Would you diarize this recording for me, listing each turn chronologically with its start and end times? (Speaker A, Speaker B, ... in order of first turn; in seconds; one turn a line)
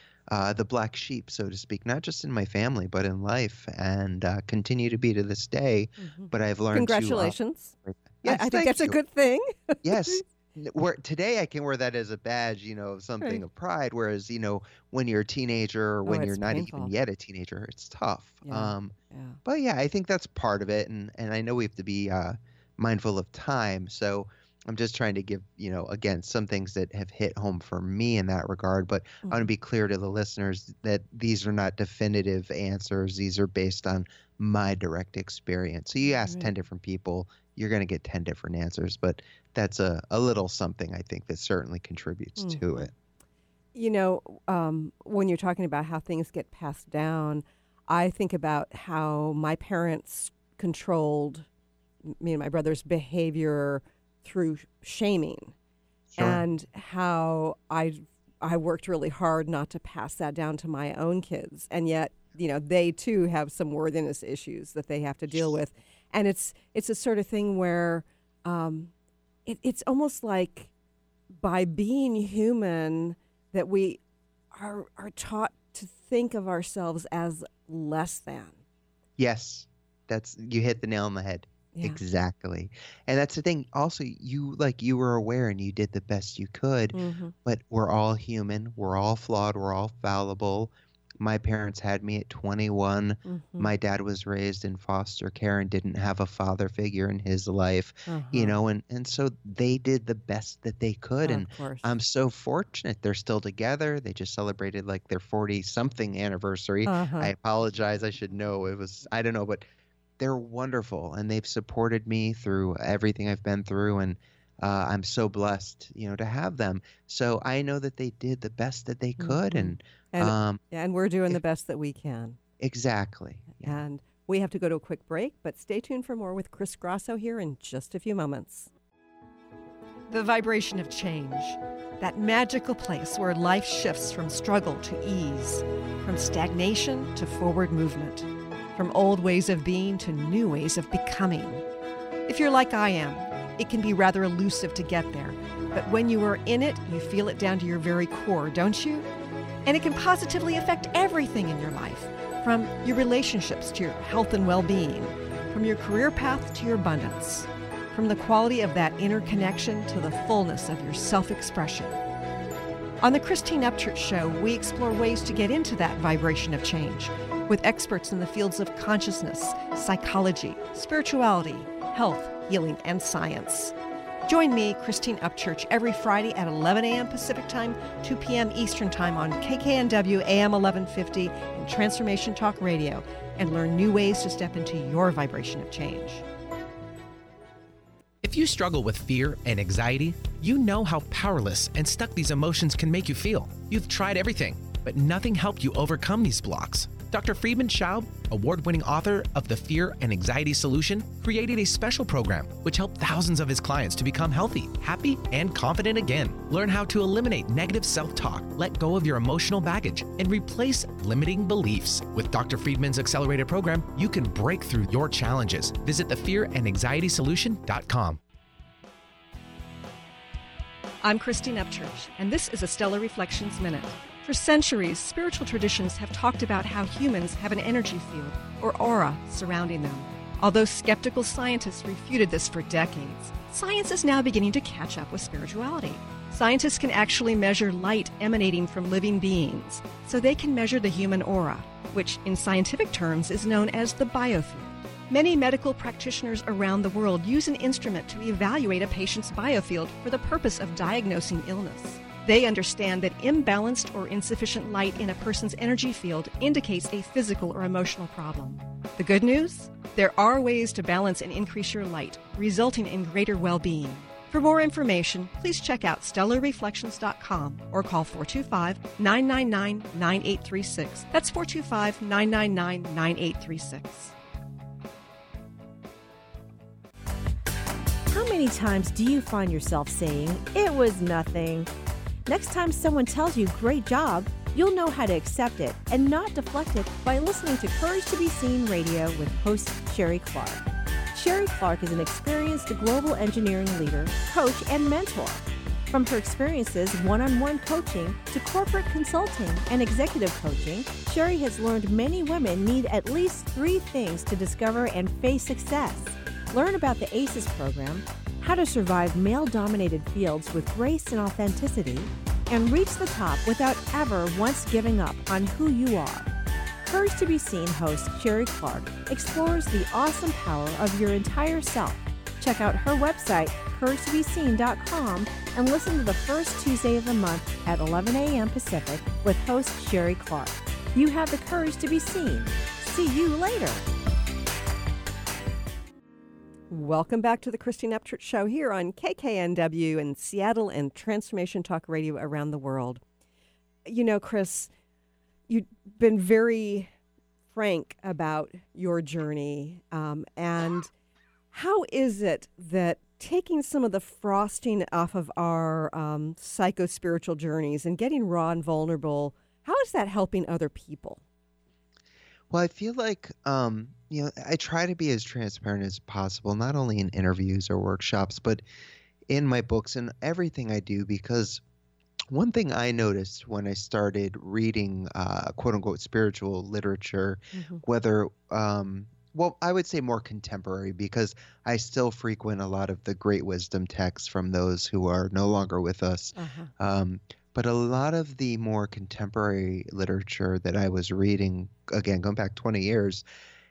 Speaker A: 0.3-9.0
Speaker B: 6.0-10.2
Speaker A: 9.8-42.9
Speaker B: 16.1-16.9
Speaker B: 18.4-19.4
Speaker B: 29.2-29.5
Speaker B: 36.0-36.5
Speaker B: 42.4-42.9
Speaker B: 43.7-51.5
Speaker B: 52.0-55.5
Speaker A: 56.1-56.4
Speaker B: 56.2-68.9
Speaker B: 69.5-70.7
Speaker B: 71.4-74.0
Speaker B: 74.5-78.6
Speaker A: 79.2-109.6
Speaker B: 81.7-82.0
Speaker B: 86.9-87.3
Speaker B: 93.2-93.7
Speaker B: 98.1-98.6
Speaker B: 101.2-101.9
Speaker B: 106.8-107.3
Speaker A: 110.2-120.6
Speaker B: 119.2-122.4
Speaker A: 122.6-123.8
Speaker B: 123.5-128.7
Speaker B: 130.1-141.6
Speaker B: 142.3-149.1
Speaker B: 149.6-162.0
Speaker B: 163.0-173.7
Speaker B: 174.2-186.2
Speaker C: 188.2-218.2
Speaker B: 221.0-274.1
Speaker D: 278.1-281.7
Speaker D: 282.2-316.3
Speaker D: 316.8-333.9
Speaker B: 336.7-343.0
Speaker B: 343.8-344.7
Speaker B: 345.5-346.9
Speaker B: 347.5-350.9
Speaker B: 351.5-361.2
Speaker A: 362.5-368.6
Speaker A: 369.3-371.6
Speaker A: 372.3-393.2
Speaker B: 377.5-377.8
Speaker B: 386.3-386.7